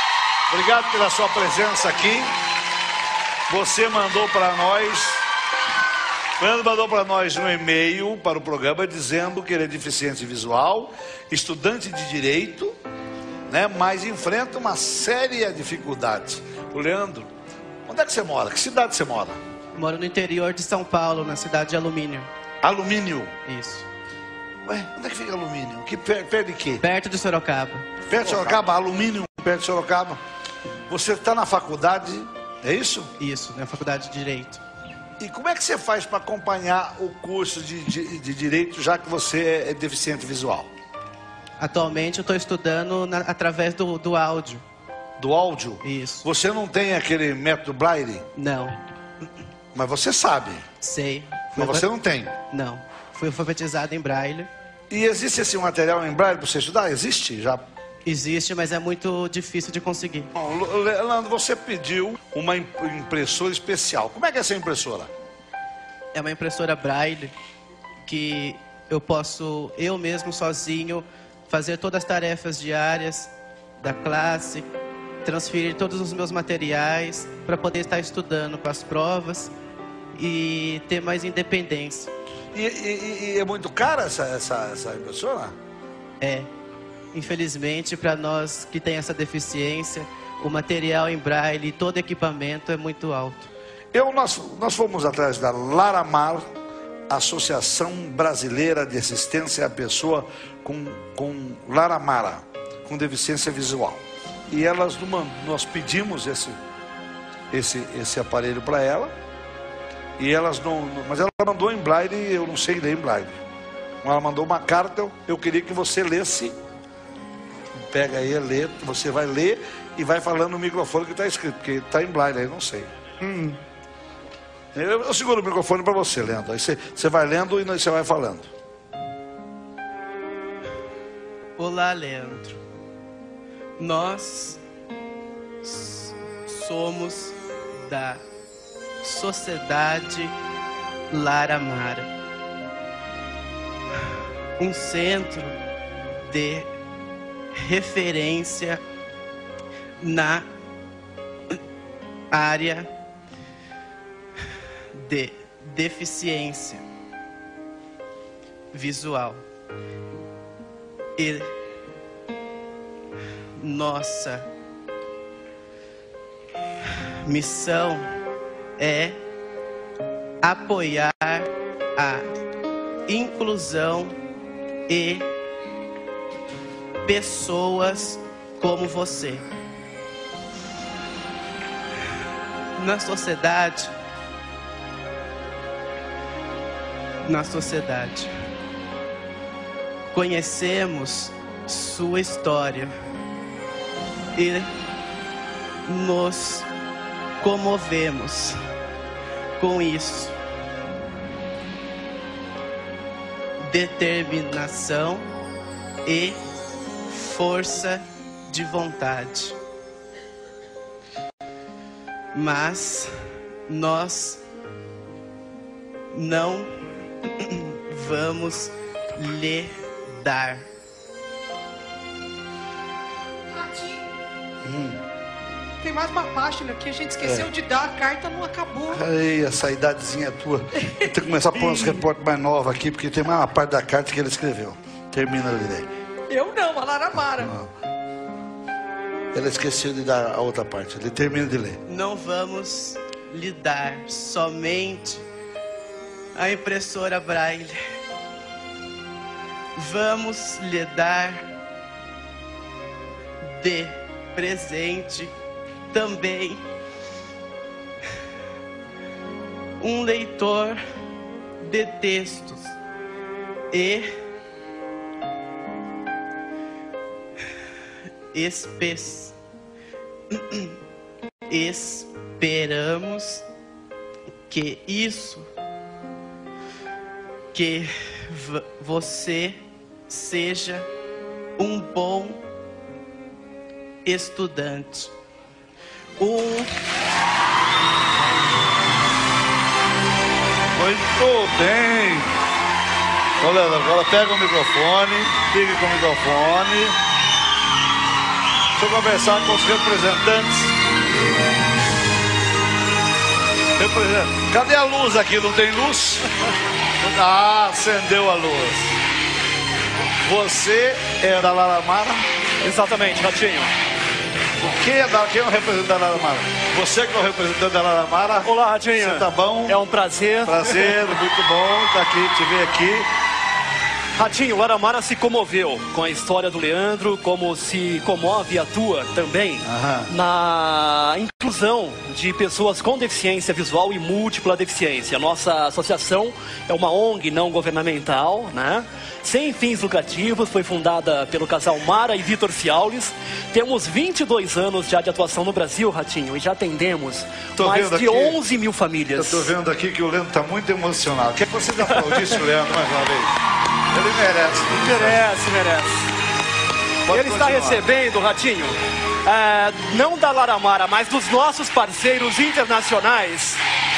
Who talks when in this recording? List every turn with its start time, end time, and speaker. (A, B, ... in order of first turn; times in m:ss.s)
0:00.5-0:02.3 A
0:03.5-0:05.2 A
0:06.4-0:12.7 A
0:13.5-0:17.3 A
0:17.9-0:19.4 A
0:19.7-0:22.3 B
0:22.6-0:23.3 A
0:23.4-0:23.8 B
0:24.6-0:26.8 A
0:26.8-0:28.6 B
0:28.0-0:30.2 A
0:30.9-0:33.1 A
0:33.2-0:34.6 B
0:35.2-0:40.7 A
0:41.6-0:44.6 B
0:45.2-0:48.3 A
0:45.8-0:46.2 B
0:48.4-0:48.7 B
0:49.7-0:50.7 A
0:50.8-0:51.9 B
0:51.5-0:52.4 A
0:52.5-0:54.5 B
0:54.9-0:57.6 A
0:58.0-1:00.3 B
1:00.3-1:05.1 A
1:06.1-1:07.3 B
1:08.0-1:14.7 B
1:15.2-1:19.5 B
1:20.1-1:22.1 B
1:22.5-1:25.6 A
1:26.2-1:26.5 B
1:27.1-1:33.5 B
1:33.9-1:36.5 A
1:37.1-1:46.6 A
1:47.5-1:49.1 A
1:50.2-1:53.4 A
1:54.0-1:56.6 A
1:57.7-2:02.9 A
2:03.2-2:03.5 C
2:04.7-2:08.5 A
2:11.6-2:12.6 B
2:13.8-2:14.6 B
2:15.6-2:18.2 B
2:19.0-2:20.3 B
2:21.1-2:22.0 B
2:24.6-2:25.5 B
2:26.3-2:26.6 B
2:27.5-2:28.8 B
2:30.0-2:30.4 B
2:32.3-2:32.9 B
2:34.9-2:36.8 B
2:38.7-2:39.4 B
2:43.6-2:44.4 B
2:47.2-2:48.0 B
2:48.8-2:49.1 B
2:50.4-2:52.2 B
2:53.1-2:54.1 B
2:54.9-2:55.2 B
2:57.0-2:59.4 B
3:02.8-3:03.9 B
3:07.2-3:08.3 B
3:10.1-3:12.9 B
3:14.4-3:14.6 B
3:15.9-3:16.6 B
3:17.4-3:18.5 B
3:19.6-3:20.3 B
3:23.7-3:25.2 B
3:26.0-3:26.3 B
3:27.1-3:29.5 B
3:32.3-3:33.1 B
3:33.7-3:34.4 B
3:36.1-3:36.6 B
3:37.2-3:40.6 B
3:43.5-3:44.0 C
3:44.6-3:45.0 A
3:45.8-3:49.0 C
3:47.2-3:47.5 A
3:48.9-3:55.9 A
3:56.3-3:57.5 C
3:57.4-3:57.7 A
3:59.3-4:01.8 A
4:01.9-4:05.2 B
4:06.4-4:07.7 B
4:09.8-4:11.3 B
4:13.4-4:15.3 B
4:15.9-4:16.6 B
4:19.8-4:20.7 B
4:21.6-4:22.6 B
4:23.7-4:24.0 B
4:28.3-4:29.3 B
4:30.3-4:30.8 B
4:31.5-4:33.4 B
4:34.5-4:35.4 B
4:37.5-4:39.5 B
4:40.1-4:40.8 B
4:41.6-4:42.4 B
4:44.0-4:45.1 B
4:46.2-4:46.6 B
4:50.7-4:52.3 A
4:53.4-4:57.0 A
4:58.7-5:00.8 A
5:03.8-5:06.2 A
5:07.0-5:09.0 A
5:10.2-5:12.2 A
5:12.6-5:13.7 D
5:14.6-5:19.8 A
5:18.4-5:21.2 D
5:20.4-5:23.1 A
5:24.1-5:49.5 D
5:29.6-5:30.1 A
5:47.6-5:48.4 A
5:49.2-5:53.3 A
5:51.8-5:52.4 D
5:53.9-5:55.2 A
5:54.7-5:56.1 D
5:57.1-5:57.8 A
5:57.1-6:03.6 D